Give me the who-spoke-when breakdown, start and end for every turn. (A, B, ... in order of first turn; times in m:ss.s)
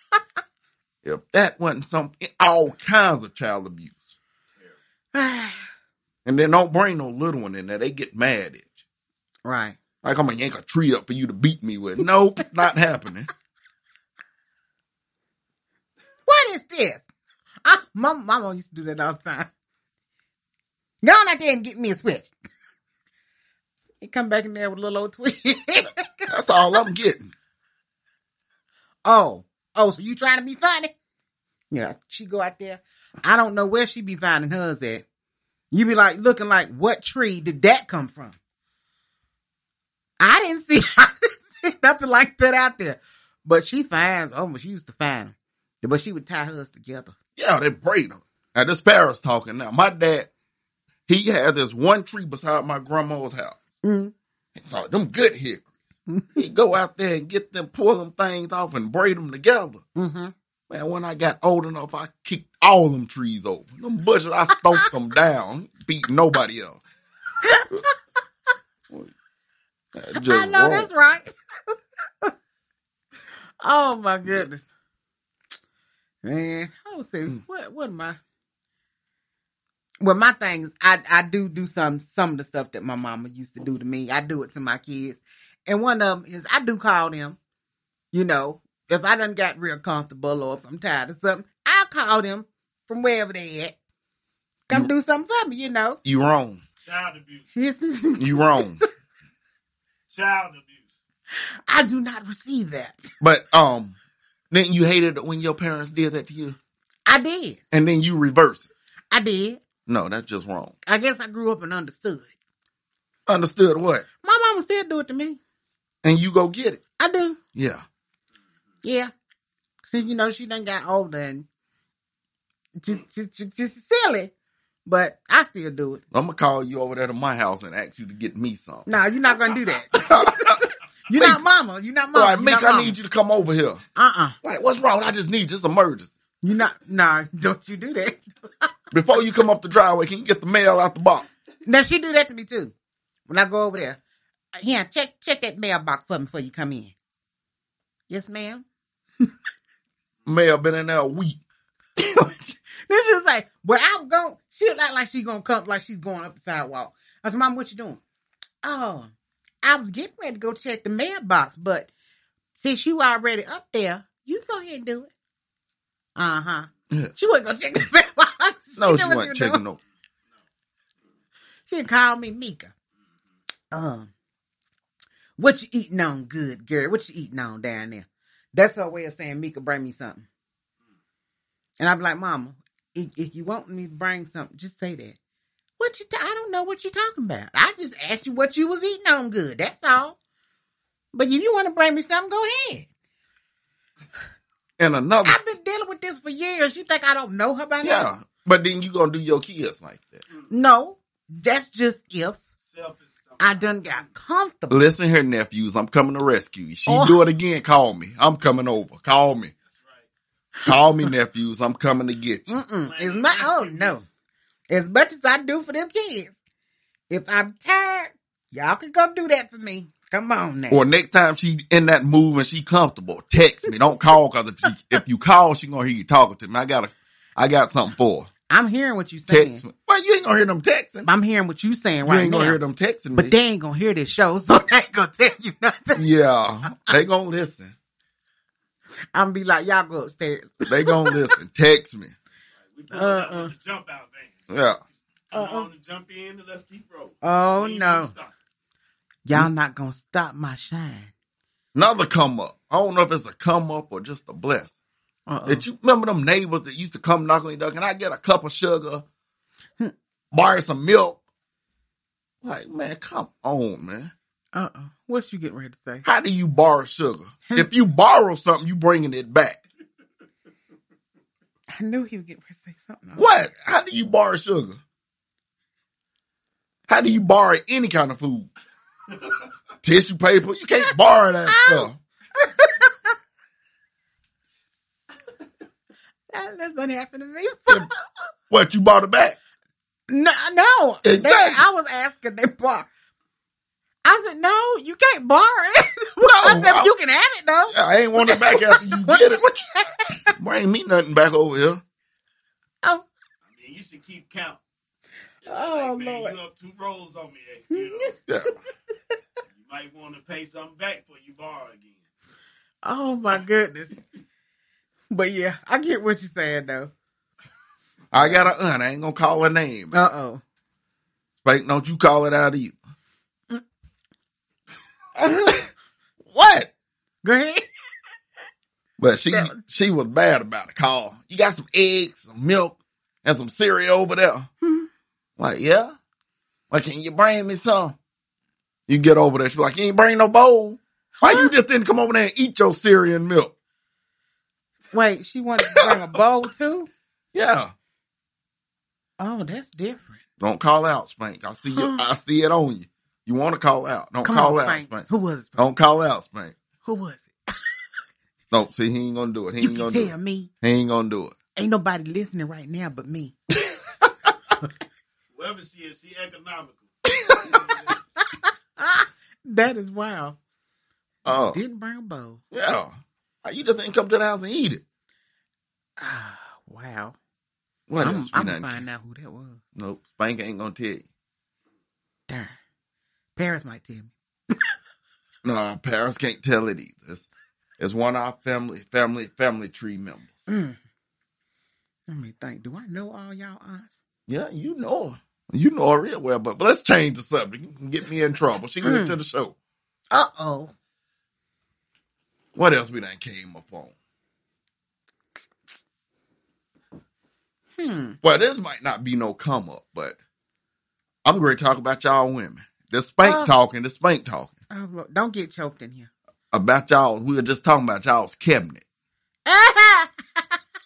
0:01.0-0:04.0 A
0:05.1-0:05.6 B
0:06.2-0:08.7 A
0:09.4-0:09.8 B
0:10.0-0:13.3 A
0:16.2-0:17.0 B
0:17.6-0:19.5 B
0:21.0-0:22.3 B
0:24.0-0:26.3 B
0:26.3-0:27.3 A
0:29.0-0:30.9 B
0:31.7-0:35.0 B
0:35.7-0:38.4 B
0:40.2-0:47.1 B
0:47.4-0:50.3 A
0:51.1-0:53.6 A
0:53.8-0:54.1 B
0:54.5-0:55.7 A
0:56.1-0:56.4 B
0:56.4-0:59.8 A
1:00.0-1:00.3 B
1:00.7-1:06.8 A
1:07.4-1:07.9 B
1:09.9-1:10.9 A
1:10.1-1:11.3 B
1:13.6-1:14.7 B
1:16.2-1:18.2 B
1:20.0-1:27.4 B
1:28.1-1:33.7 B
1:34.7-1:36.0 B
1:36.0-1:36.6 A
1:36.8-1:37.5 C
1:37.5-1:38.8 B
1:38.2-1:38.8 A
1:40.1-1:40.9 C
1:41.3-1:43.0 B
1:43.2-1:43.9 A
1:44.5-1:46.6 A
1:47.1-1:47.6 B
1:47.7-1:48.6 A
1:49.1-1:49.6 B
1:49.9-1:50.7 A
1:50.8-1:52.3 B
1:53.3-1:54.0 A
1:54.2-1:55.4 B
1:56.0-1:56.8 A
1:57.0-1:57.4 B
1:57.5-1:57.8 A
1:58.8-1:59.1 B
1:59.9-2:01.4 B
2:02.8-2:04.3 B
2:04.8-2:06.0 B
2:06.1-2:08.9 A
2:08.9-2:13.0 B
2:09.9-2:11.4 A
2:12.1-2:13.8 A
2:14.0-2:14.4 B
2:14.4-2:16.1 A
2:16.4-2:18.7 B
2:18.9-2:21.3 A
2:21.6-2:22.7 B
2:23.3-2:24.0 B
2:24.6-2:26.9 B
2:28.1-2:28.6 B
2:30.2-2:31.4 A
2:32.0-2:32.3 A
2:32.8-2:38.0 B
2:38.6-2:39.1 B
2:39.6-2:41.9 B
2:42.6-2:45.1 B
2:46.2-2:49.6 B
2:48.8-2:49.8 A
2:51.7-2:52.7 B
2:53.7-2:54.1 B
2:55.4-3:00.2 B
3:01.8-3:05.2 B
3:05.8-3:10.2 B
3:11.1-3:12.9 B
3:14.8-3:15.4 A
3:15.2-3:18.1 B
3:17.8-3:20.2 A
3:20.5-3:22.4 B
3:22.6-3:24.0 C
3:23.4-3:24.8 B
3:24.7-3:29.5 A
3:26.9-3:27.2 B
3:29.7-3:30.0 C
3:30.6-3:32.5 A
3:32.5-3:34.0 B
3:32.8-3:34.0 C
3:34.7-3:36.3 B
3:37.1-3:40.8 B
3:40.7-3:48.3 A
3:48.5-3:49.6 B
3:49.3-3:51.1 A
3:51.0-3:52.6 B
3:52.0-3:53.3 A
3:53.1-3:56.0 B
3:56.0-3:57.7 A
3:59.1-4:01.3 B
4:00.7-4:02.1 A
4:02.7-4:04.4 C
4:02.9-4:03.5 B
4:04.5-4:04.8 A
4:05.3-4:08.3 C
4:05.3-4:05.7 B
4:07.2-4:08.1 B
4:09.2-4:11.1 B
4:11.7-4:14.7 A
4:15.3-4:15.6 B
4:15.5-4:19.0 A
4:20.3-4:21.2 A
4:22.4-4:24.1 A
4:24.5-4:26.0 B
4:26.0-4:29.6 A
4:31.7-4:33.3 B
4:33.2-4:34.8 A
4:36.9-4:38.5 A
4:39.8-4:42.0 A
4:41.5-4:43.1 B
4:46.3-4:47.9 B
4:48.5-4:49.4 A
4:50.1-4:52.9 B
4:51.0-4:51.6 A
4:54.0-5:00.3 B
4:56.2-4:56.9 A
4:57.7-4:59.6 A
5:00.4-5:01.8 A
5:03.5-5:04.6 C
5:05.4-5:08.2 C
5:05.5-5:06.3 B
5:07.7-5:08.1 B
5:08.3-5:08.6 A
5:09.5-5:12.0 C
5:12.8-5:13.9 B
5:15.1-5:16.9 B
5:18.1-5:19.9 A
5:19.9-5:20.4 B
5:21.4-5:22.8 A
5:25.2-5:25.7 B
5:26.2-5:26.7 A
5:27.2-5:27.6 B
5:29.0-5:34.5 A
5:29.3-5:29.6 B
5:34.6-5:34.9 B
5:35.4-5:35.9 A
5:36.7-5:38.0 A
5:38.9-5:43.5 A
5:41.2-5:41.5 B
5:44.9-5:46.9 B
5:47.3-5:47.7 A
5:49.2-5:50.2 B
5:50.4-5:55.0 A
5:51.7-5:52.0 B
5:54.2-5:55.6 B
5:55.6-5:56.6 A
5:56.8-5:57.3 B
5:58.5-6:01.3 A
5:59.6-6:00.5 B
6:01.6-6:03.4 B
6:05.3-6:07.9 C
6:07.2-6:07.5 A
6:08.2-6:10.4 B
6:11.2-6:11.6 A
6:11.3-6:12.4 B
6:12.5-6:14.8 A
6:16.0-6:17.2 B
6:17.9-6:18.8 A
6:18.0-6:19.6 B
6:19.8-6:21.0 A
6:22.3-6:22.5 B
6:23.4-6:24.1 B
6:25.4-6:27.2 A
6:27.8-6:30.3 A
6:30.5-6:30.8 B
6:32.1-6:34.0 B
6:34.3-6:39.5 A
6:38.8-6:39.2 B
6:40.1-6:40.7 B
6:42.5-6:43.9 A
6:47.8-6:48.2 B
6:48.2-6:50.2 A
6:51.2-6:54.5 A
6:53.2-6:53.5 B
6:54.7-6:56.1 B
6:56.5-6:58.8 A
6:59.4-7:00.1 B